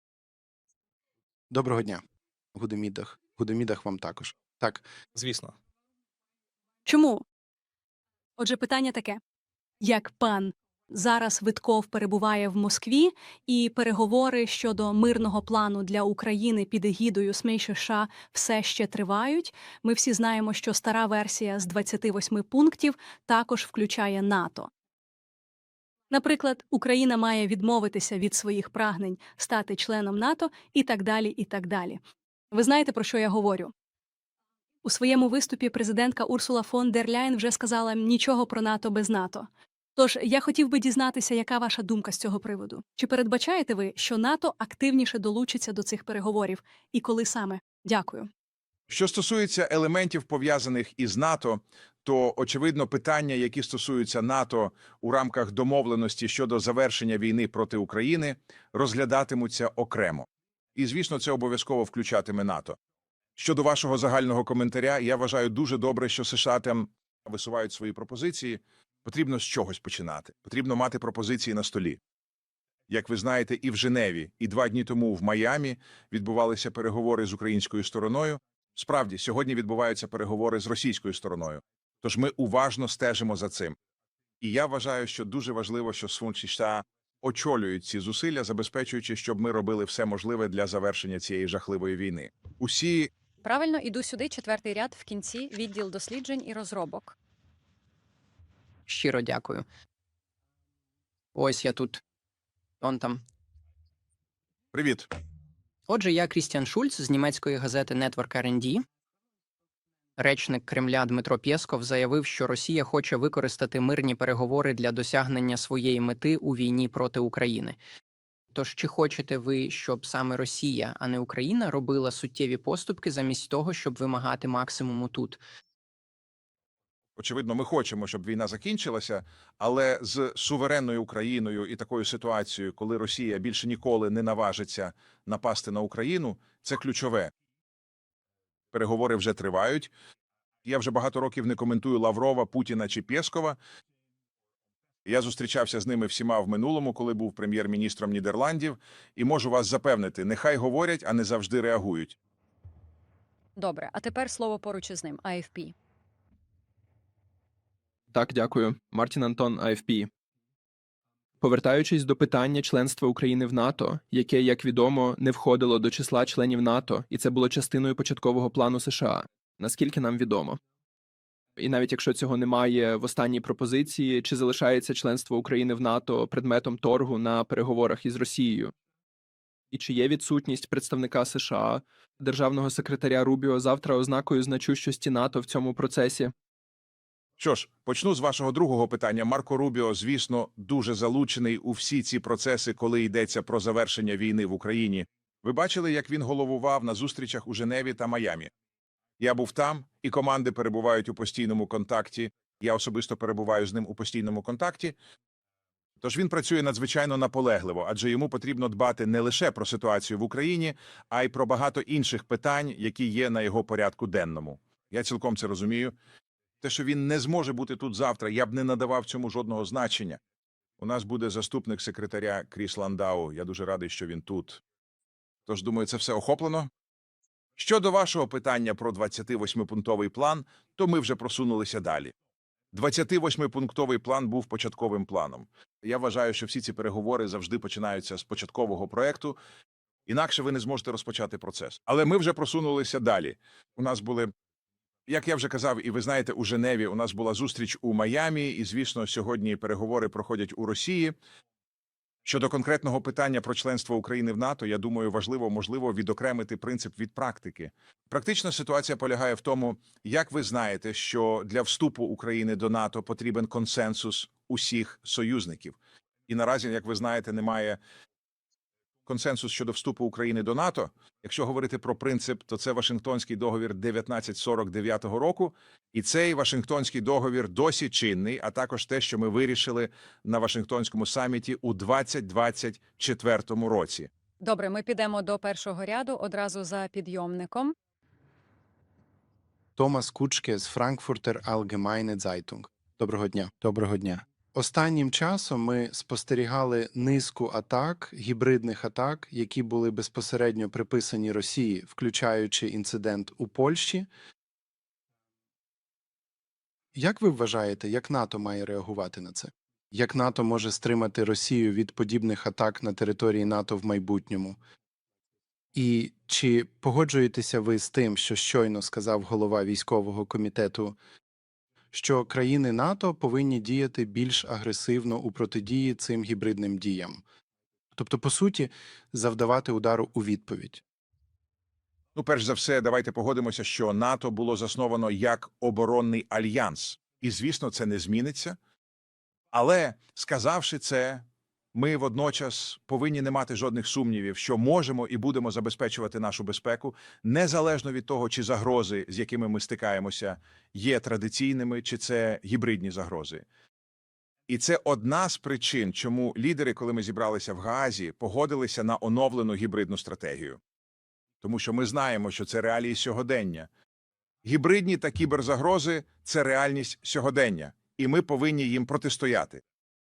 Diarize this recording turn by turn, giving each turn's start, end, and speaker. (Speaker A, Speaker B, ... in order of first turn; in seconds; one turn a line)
Speaker A: 1.5-2.0
Speaker A: 2.5-4.8
Speaker B: 6.9-7.2
Speaker B: 8.4-9.2
Speaker B: 9.8-24.7
Speaker B: 26.1-32.0
Speaker B: 32.5-33.7
Speaker B: 34.8-48.3
Speaker C: 48.9-62.8
Speaker C: 63.4-72.0
Speaker C: 72.9-83.8
Speaker C: 84.4-93.1
Speaker D: 93.4-97.2
Speaker E: 98.9-99.7
Speaker E: 101.3-102.0
Speaker E: 102.8-103.2
Speaker C: 104.7-105.1
Speaker E: 105.9-108.8
Speaker E: 110.2-117.8
Speaker E: 118.5-125.4
Speaker C: 127.2-137.3
Speaker C: 138.7-139.9
Speaker C: 140.7-143.6
Speaker C: 145.1-152.2
Speaker D: 153.6-155.7
Speaker F: 158.1-160.1
Speaker F: 161.4-170.6
Speaker F: 171.6-178.7
Speaker F: 179.7-186.3
Speaker C: 187.4-198.5
Speaker C: 199.2-204.9
Speaker C: 206.0-215.9
Speaker C: 216.6-220.2
Speaker C: 220.8-224.6
Speaker C: 225.5-226.7
Speaker C: 227.6-232.1
Speaker C: 232.7-239.4
Speaker C: 240.1-244.3
Speaker C: 245.1-251.2
Speaker C: 252.2-265.8
Speaker C: 266.3-267.8
Speaker C: 269.1-284.1
Speaker D: 284.4-287.7
Speaker A: 289.8-304.1
Speaker A: 306.9-314.6
Speaker A: 315.8-321.0
Speaker A: 321.9-327.2
Speaker A: 327.9-330.8
Speaker C: 332.2-338.6
Speaker C: 339.5-353.4
Speaker C: 354.5-360.6
Speaker C: 361.4-363.7
Speaker C: 364.4-369.6